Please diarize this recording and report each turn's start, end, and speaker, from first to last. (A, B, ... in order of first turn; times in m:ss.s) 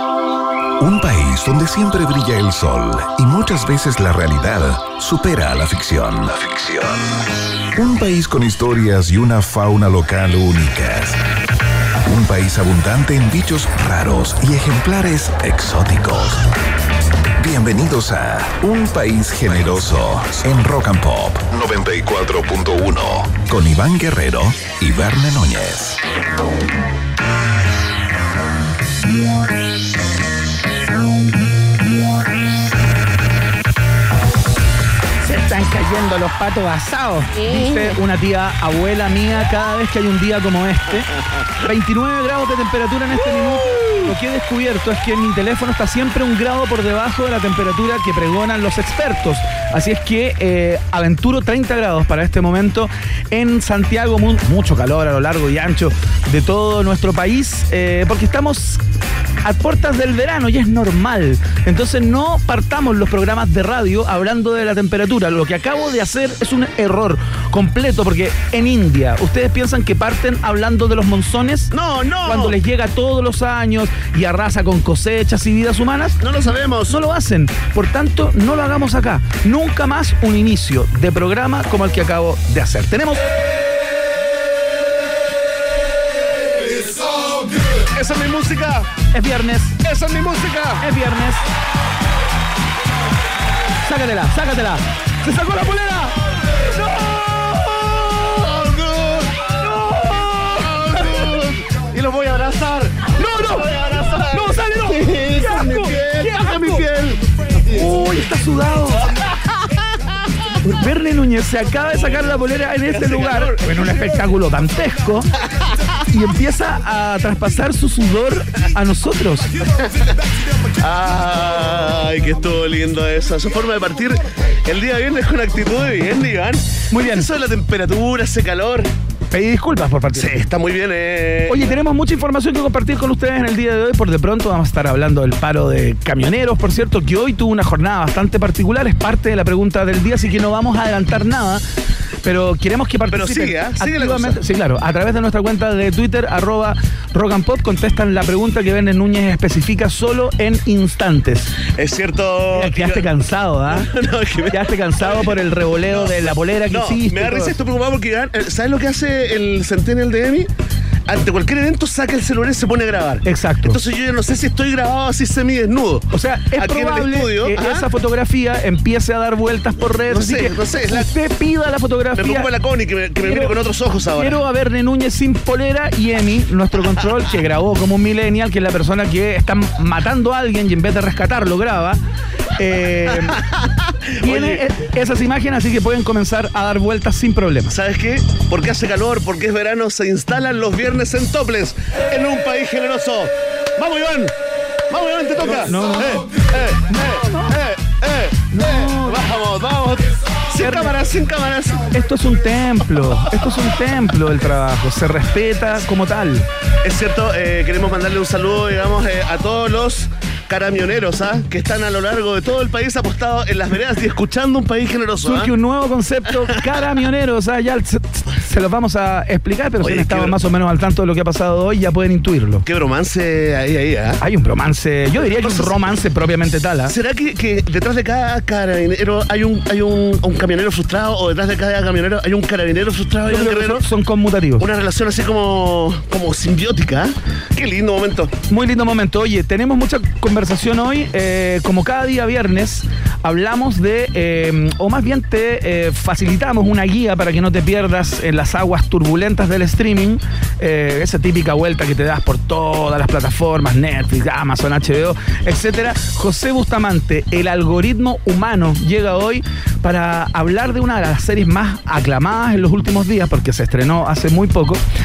0:00.8-0:07.2 A
0:07.7-0:11.2 A
0:12.0-0:16.5 A
0:17.4-0:26.0 A
0:35.2-0:58.8 B
0:59.4-1:11.7 B
1:11.7-1:12.6 C
1:12.2-1:16.2 B
1:16.2-1:17.0 C
1:16.9-1:23.2 B
1:26.8-1:27.1 C
1:27.8-1:28.9 C
1:29.1-1:29.8 B
1:29.8-1:30.8 C
1:30.8-1:31.4 B
1:33.8-1:36.2 B
1:37.0-1:48.2 C
1:39.6-1:41.3 B
1:43.2-1:46.8 B
1:47.7-1:49.1 B
1:50.6-1:55.3 B
1:52.9-1:54.2 C
1:56.1-1:59.5 B
1:59.8-2:00.2 C
2:00.8-2:08.9 C
2:06.9-2:07.3 B
2:09.3-2:10.4 B
2:10.1-2:11.8 C
2:11.5-2:21.6 B
2:22.2-2:31.5 B
2:23.1-2:24.4 C
2:31.8-2:33.1 C
2:32.5-2:33.9 B
2:33.7-2:40.5 C
2:34.5-2:37.6 B
2:41.1-2:47.9 C
2:43.2-2:43.8 B
2:46.1-2:52.5 B
2:50.1-2:51.1 C
2:52.2-2:54.4 C
2:53.2-2:53.5 B
2:54.2-3:02.0 B
3:02.6-3:03.4 B
3:03.4-3:04.6 C
3:04.2-3:07.8 B
3:07.7-3:14.3 C
3:14.9-3:21.9 C
3:15.4-3:16.3 B
3:16.9-3:17.6 B
3:18.5-3:19.2 B
3:20.6-3:21.0 B
3:21.9-3:26.5 B
3:26.8-3:35.5 C
3:35.2-3:42.6 B
3:39.8-3:40.4 C
3:42.6-3:44.2 C
3:44.2-3:46.9 B
3:45.2-3:45.9 C
3:46.9-3:53.9 C
3:53.3-3:54.7 B
3:54.6-3:58.3 C
3:58.5-4:24.8 B